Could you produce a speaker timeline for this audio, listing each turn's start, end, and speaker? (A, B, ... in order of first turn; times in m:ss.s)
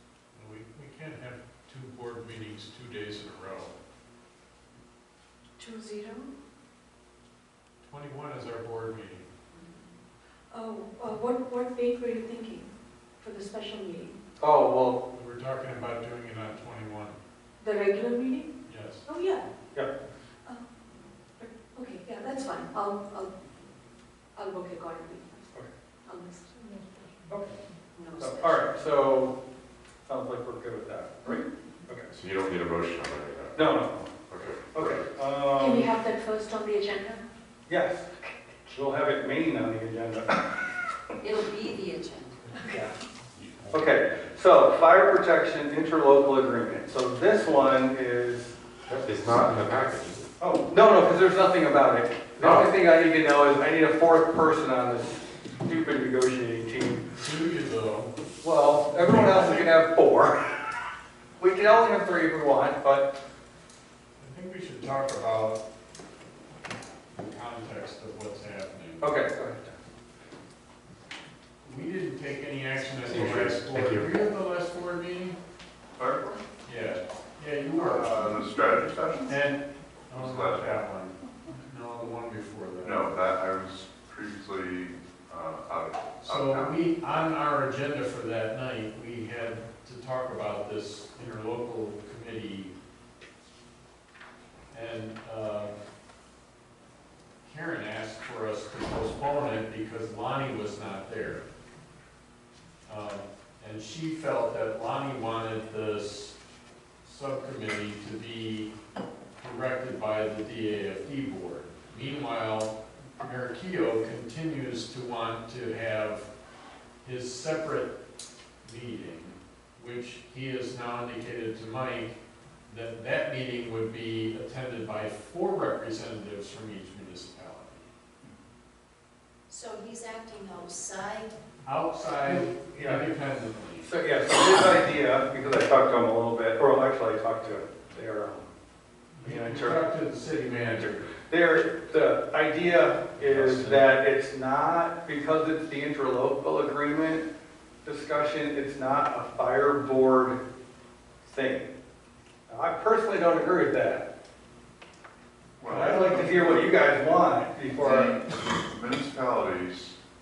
0:00.3-0:03.7 A
0:05.6-0:06.3 B
0:07.8-0:09.2 A
0:10.5-0:12.6 B
0:13.2-0:14.2 B
0:14.4-0:15.0 C
0:15.1-0:17.2 A
0:17.6-0:18.5 B
0:18.6-0:19.0 A
0:19.0-0:19.4 B
0:21.4-0:23.3 B
0:24.3-0:25.4 B
0:26.0-0:26.8 B
0:27.3-0:27.6 C
0:28.0-0:28.6 D
0:28.2-0:29.3 C
0:30.1-0:32.1 C
0:32.1-0:33.7 E
0:33.5-0:34.1 C
0:34.3-0:35.0 E
0:34.6-0:35.9 C
0:35.5-0:37.2 B
0:37.7-0:38.1 C
0:38.7-0:40.6 C
0:41.2-0:42.4 D
0:43.4-0:44.2 E
0:43.7-0:48.6 C
0:48.9-0:50.2 E
0:50.4-0:57.0 C
0:57.2-0:58.1 A
0:58.4-1:00.6 C
0:59.2-0:59.4 A
1:01.4-1:03.1 C
1:04.2-1:05.6 A
1:07.2-1:09.1 A
1:09.0-1:09.7 C
1:11.6-1:15.4 A
1:13.0-1:14.2 E
1:16.0-1:16.4 F
1:16.6-1:18.4 A
1:17.8-1:19.3 F
1:19.2-1:23.0 A
1:20.1-1:20.8 F
1:22.8-1:26.8 F
1:26.2-1:32.7 A
1:34.7-1:35.8 A
1:37.4-1:41.4 A
1:42.8-1:46.3 A
1:47.0-1:48.7 A
1:49.4-1:56.3 A
1:57.0-1:57.9 A
1:58.6-2:07.9 A
2:09.5-2:11.4 D
2:11.6-2:13.9 A
2:12.2-2:13.1 C
2:13.8-2:18.5 C
2:19.1-2:21.1 A
2:19.2-2:19.8 C
2:21.1-2:27.2 C
2:23.2-2:23.9 A
2:27.8-2:30.4 C
2:31.2-2:31.7 C
2:32.5-2:34.0 C
2:35.6-2:36.7 F
2:35.6-2:38.1 C
2:37.8-2:40.0 F